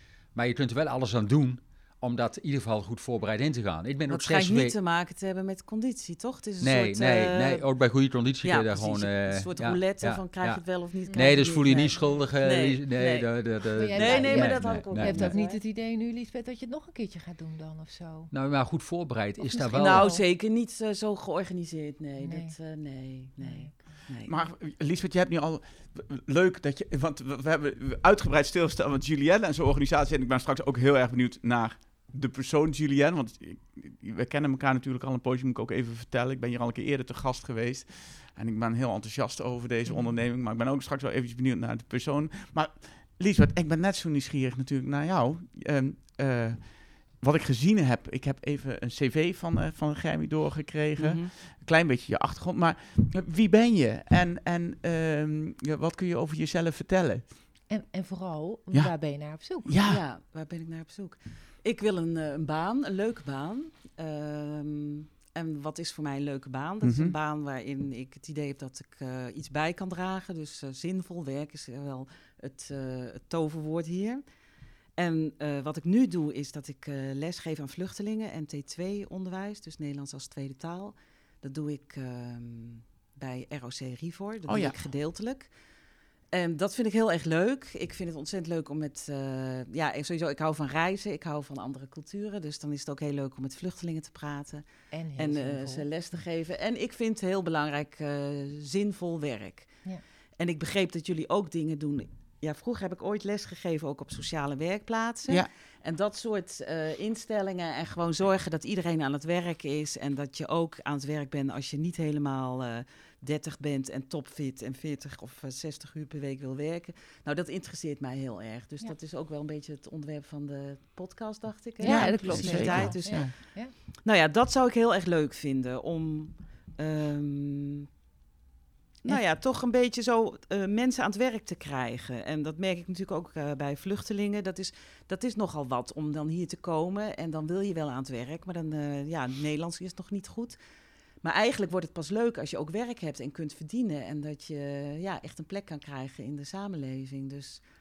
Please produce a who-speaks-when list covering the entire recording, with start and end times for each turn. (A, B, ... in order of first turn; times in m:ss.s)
0:00.4-0:04.8 A
0:04.1-0:07.6 B
0:06.6-0:15.4 A
0:08.4-0:15.6 B
0:13.8-0:18.3 C
0:18.3-0:20.1 A
0:19.4-0:20.2 C
0:19.8-0:24.5 B
0:22.2-0:22.5 C
0:23.4-0:23.8 C
0:24.3-0:57.3 D
0:51.0-0:51.3 B
0:57.7-0:59.7 C
0:59.6-1:00.0 D
0:59.8-1:14.2 B
1:06.8-1:07.1 D
1:15.0-1:25.5 B
1:24.5-1:24.7 D
1:26.3-2:07.9 B
1:34.9-1:35.9 C
2:01.8-2:03.7 C
2:01.8-2:03.3 D
2:09.0-2:20.6 B
2:21.2-2:27.6 B